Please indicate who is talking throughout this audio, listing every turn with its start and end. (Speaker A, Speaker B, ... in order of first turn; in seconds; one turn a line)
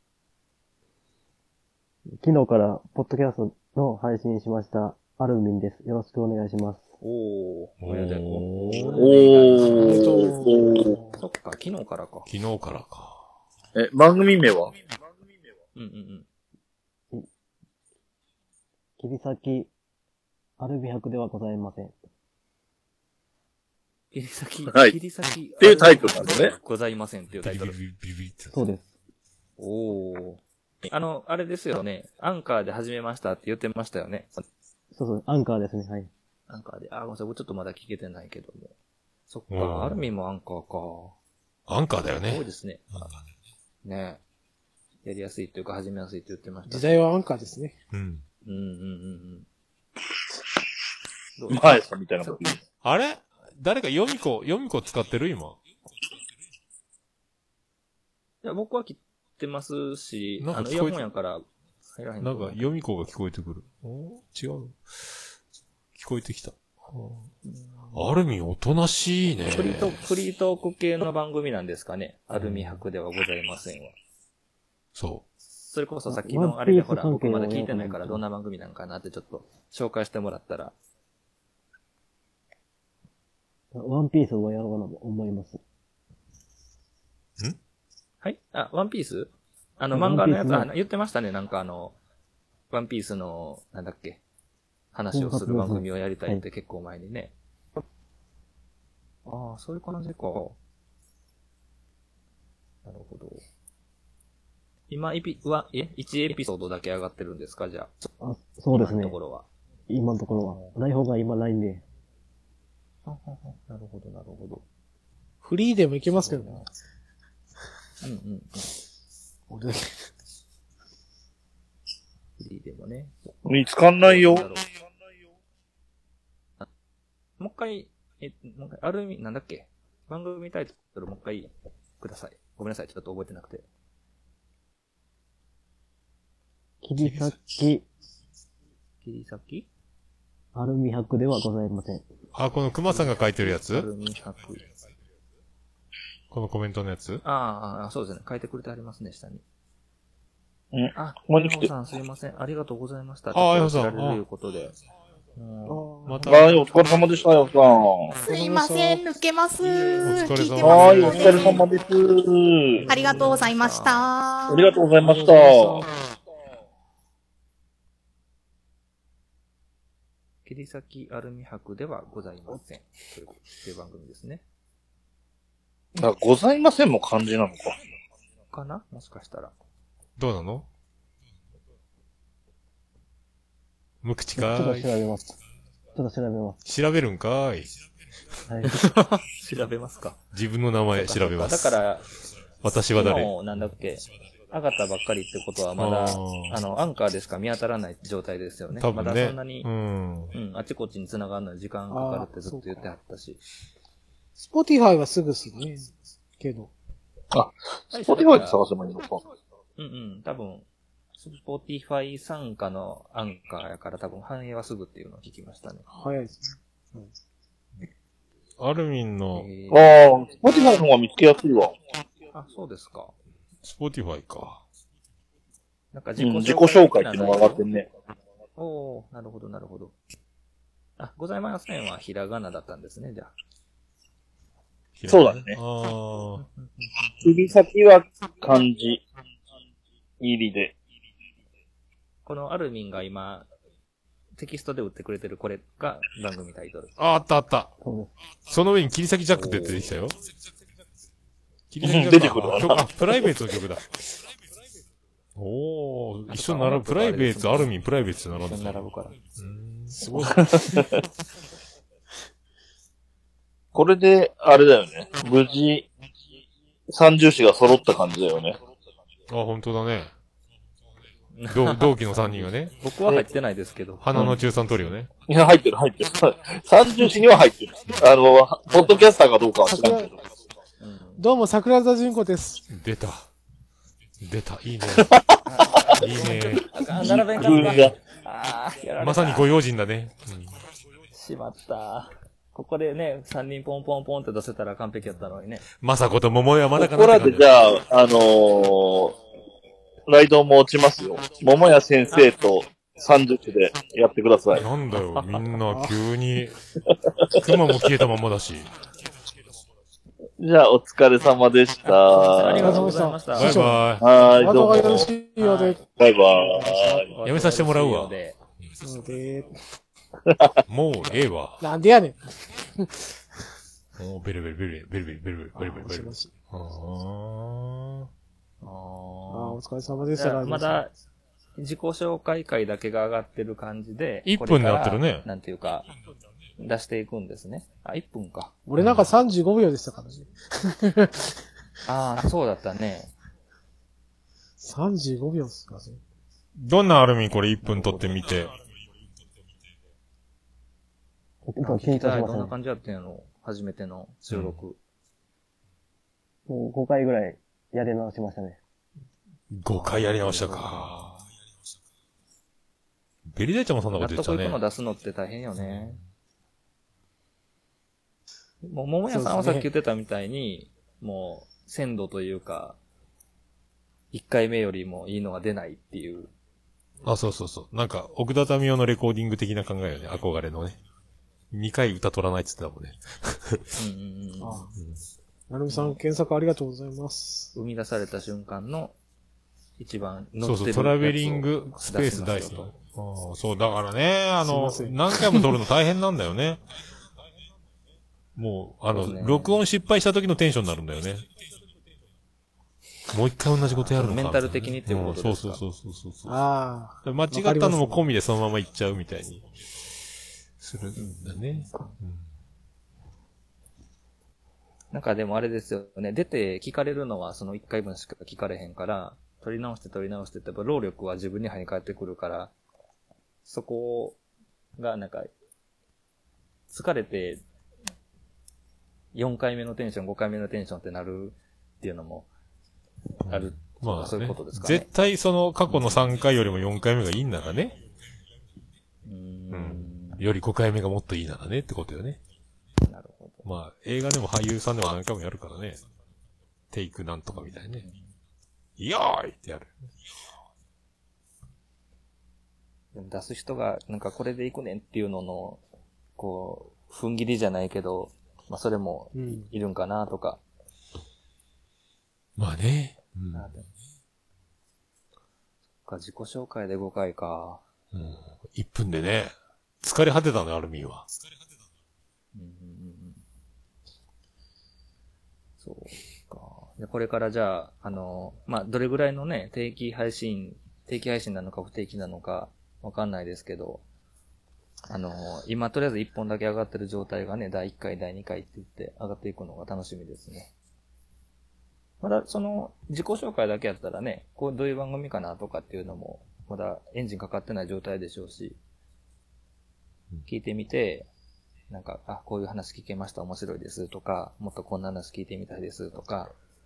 Speaker A: 2.2-6.8
Speaker B: 7.0-10.1
Speaker C: 7.8-9.0
Speaker D: 9.0-10.9
Speaker E: 9.7-11.2
Speaker B: 11.2-12.3
Speaker C: 12.3-13.2
Speaker D: 13.7-14.7
Speaker B: 15.7-16.3
Speaker A: 19.0-19.7
Speaker A: 20.6-21.9
Speaker B: 24.1-27.8
Speaker D: 24.7-24.9
Speaker D: 25.6-26.5
Speaker C: 27.3-28.7
Speaker A: 28.5-28.8
Speaker B: 29.6-34.4
Speaker A: 34.9-36.1
Speaker B: 36.5-38.7
Speaker B: 39.3-41.1
Speaker C: 39.5-40.0
Speaker C: 41.7-42.4
Speaker B: 42.0-43.1
Speaker B: 43.8-44.2
Speaker B: 45.0-47.0
Speaker E: 46.7-47.8
Speaker C: 47.9-48.2
Speaker B: 48.4-49.5
Speaker B: 51.4-52.4
Speaker D: 51.5-52.6
Speaker C: 52.8-55.6
Speaker B: 58.4-62.7
Speaker C: 60.4-61.1
Speaker C: 62.2-65.2
Speaker C: 65.9-67.3
Speaker B: 67.4-68.1
Speaker C: 67.9-70.0
Speaker B: 69.5-73.9
Speaker C: 72.3-72.8
Speaker C: 74.9-75.2
Speaker B: 75.5-80.7
Speaker A: 76.1-78.2
Speaker A: 83.7-85.6
Speaker B: 88.2-91.9
Speaker A: 89.9-90.7
Speaker B: 92.7-94.2
Speaker B: 94.9-97.3
Speaker A: 95.1-96.4
Speaker B: 99.2-100.6
Speaker B: 102.8-103.4
Speaker B: 104.9-108.1
Speaker A: 108.2-109.2
Speaker B: 108.7-109.5
Speaker A: 109.9-111.8
Speaker B: 110.4-110.8
Speaker B: 113.0-114.6
Speaker E: 115.4-116.6
Speaker B: 116.2-116.7
Speaker B: 118.0-118.7
Speaker E: 119.5-120.0
Speaker B: 122.4-124.7
Speaker D: 123.5-124.5
Speaker B: 127.4-133.6
Speaker A: 136.8-137.8
Speaker C: 137.0-137.5
Speaker B: 139.0-139.7
Speaker A: 140.5-142.0
Speaker C: 142.3-143.9
Speaker B: 142.9-144.6
Speaker C: 146.3-147.2
Speaker B: 147.2-149.4
Speaker D: 150.7-151.7
Speaker B: 150.9-154.8
Speaker C: 153.3-154.2
Speaker B: 155.4-156.8
Speaker E: 155.7-156.4
Speaker C: 156.0-156.5
Speaker D: 156.2-158.2
Speaker F: 158.2-161.6
Speaker E: 158.2-159.1
Speaker C: 160.0-161.4
Speaker D: 160.6-162.9
Speaker E: 160.9-161.6
Speaker E: 162.7-163.4
Speaker F: 162.9-164.7
Speaker B: 163.1-164.1
Speaker D: 164.5-165.8
Speaker E: 165.0-165.9
Speaker B: 170.4-174.4
Speaker D: 176.0-177.7
Speaker B: 178.5-179.5
Speaker C: 180.2-180.7
Speaker C: 184.0-184.9
Speaker A: 184.3-185.3
Speaker A: 185.9-186.6
Speaker C: 186.6-187.7
Speaker A: 188.5-188.8
Speaker B: 188.7-190.2
Speaker C: 190.3-191.8
Speaker B: 190.9-192.1
Speaker C: 192.6-193.3
Speaker B: 192.9-199.7
Speaker C: 195.8-196.6
Speaker C: 198.7-200.3
Speaker B: 200.3-203.4
Speaker E: 201.9-202.9
Speaker E: 204.3-206.7
Speaker D: 207.3-209.2
Speaker B: 207.9-208.6
Speaker B: 209.8-210.7
Speaker B: 211.2-215.8
Speaker E: 215.9-217.1
Speaker C: 218.6-219.6
Speaker B: 219.3-220.0
Speaker D: 219.7-221.8
Speaker B: 222.3-223.1
Speaker C: 223.6-224.6
Speaker B: 225.9-227.6
Speaker D: 226.2-227.9
Speaker B: 228.6-229.9
Speaker B: 231.0-233.3
Speaker C: 235.0-236.4
Speaker D: 235.1-235.6
Speaker B: 236.4-237.1
Speaker D: 237.2-239.0
Speaker D: 240.2-240.7
Speaker B: 242.2-243.5
Speaker B: 244.4-246.9
Speaker C: 247.0-247.7
Speaker A: 247.8-248.1
Speaker C: 248.5-250.2
Speaker B: 249.3-249.9
Speaker C: 251.7-253.8
Speaker D: 251.8-252.9
Speaker C: 255.3-260.4
Speaker B: 256.3-257.7
Speaker B: 258.4-259.1
Speaker E: 259.9-260.9
Speaker D: 263.7-265.9
Speaker D: 266.9-268.6
Speaker C: 269.3-270.1
Speaker B: 271.3-274.4
Speaker C: 271.5-272.7
Speaker C: 274.0-275.1
Speaker D: 275.3-280.1
Speaker B: 278.7-279.0
Speaker E: 279.7-280.1
Speaker B: 280.8-281.3
Speaker E: 281.2-282.6
Speaker C: 282.7-283.2
Speaker C: 284.2-285.1
Speaker D: 285.0-285.7
Speaker B: 285.4-289.5
Speaker C: 285.9-287.9
Speaker D: 286.8-287.9
Speaker C: 289.0-290.5
Speaker B: 291.1-295.6
Speaker C: 295.1-297.6
Speaker D: 296.8-299.1
Speaker D: 300.1-304.6
Speaker C: 304.5-306.6
Speaker E: 305.7-305.9
Speaker C: 307.4-308.7
Speaker D: 310.4-312.8
Speaker B: 311.8-313.7
Speaker E: 312.6-315.8
Speaker C: 313.3-314.1
Speaker D: 314.0-315.1
Speaker B: 315.4-315.8
Speaker D: 315.9-317.0
Speaker E: 316.4-317.0
Speaker B: 317.0-318.4
Speaker C: 317.2-318.1
Speaker E: 318.8-319.5
Speaker C: 320.7-321.6
Speaker E: 321.6-323.2
Speaker C: 324.0-328.1
Speaker B: 325.6-325.8
Speaker E: 325.6-326.3
Speaker B: 328.6-330.9
Speaker E: 329.3-330.8
Speaker B: 331.6-335.9
Speaker C: 334.2-335.2
Speaker B: 336.6-338.5
Speaker E: 338.6-341.4
Speaker C: 338.8-339.1
Speaker B: 341.9-343.1
Speaker E: 344.6-346.0
Speaker C: 346.6-348.5
Speaker B: 347.6-348.3
Speaker A: 351.5-352.5
Speaker B: 351.6-354.8
Speaker C: 354.3-354.6
Speaker A: 356.5-358.6
Speaker C: 359.5-361.2
Speaker B: 359.7-360.9
Speaker C: 363.3-364.6
Speaker B: 363.9-366.0
Speaker C: 365.6-366.0
Speaker B: 368.6-372.8
Speaker E: 369.1-369.7
Speaker B: 374.1-376.3
Speaker C: 377.0-380.8
Speaker C: 381.5-383.7
Speaker B: 383.8-384.7
Speaker E: 384.4-384.7
Speaker E: 385.5-387.5
Speaker B: 385.7-386.0
Speaker B: 387.5-388.9
Speaker B: 389.8-392.7
Speaker C: 390.4-396.6
Speaker E: 394.4-395.5
Speaker C: 398.4-401.2
Speaker B: 398.9-399.6
Speaker C: 403.1-406.4
Speaker B: 403.7-405.6
Speaker E: 406.3-408.0
Speaker C: 407.0-409.4
Speaker C: 410.6-412.3
Speaker B: 410.9-411.9
Speaker B: 414.9-422.5
Speaker B: 423.4-424.2
Speaker B: 424.8-425.3
Speaker B: 426.7-427.4
Speaker B: 429.1-432.3
Speaker C: 433.3-437.8
Speaker B: 433.3-434.9
Speaker B: 435.7-436.2
Speaker B: 439.1-440.3
Speaker C: 439.5-442.2
Speaker B: 442.8-443.4
Speaker C: 443.4-445.8
Speaker C: 446.7-447.9
Speaker B: 447.3-448.1
Speaker C: 448.8-449.7
Speaker B: 452.9-455.6
Speaker B: 456.2-460.4
Speaker E: 459.1-459.5
Speaker C: 462.4-463.6
Speaker B: 463.3-463.7
Speaker B: 465.8-467.6
Speaker C: 467.9-471.1
Speaker B: 472.3-473.2
Speaker B: 475.6-483.8
Speaker B: 484.9-490.5
Speaker B: 492.0-498.6
Speaker B: 500.3-501.1
Speaker B: 501.7-506.3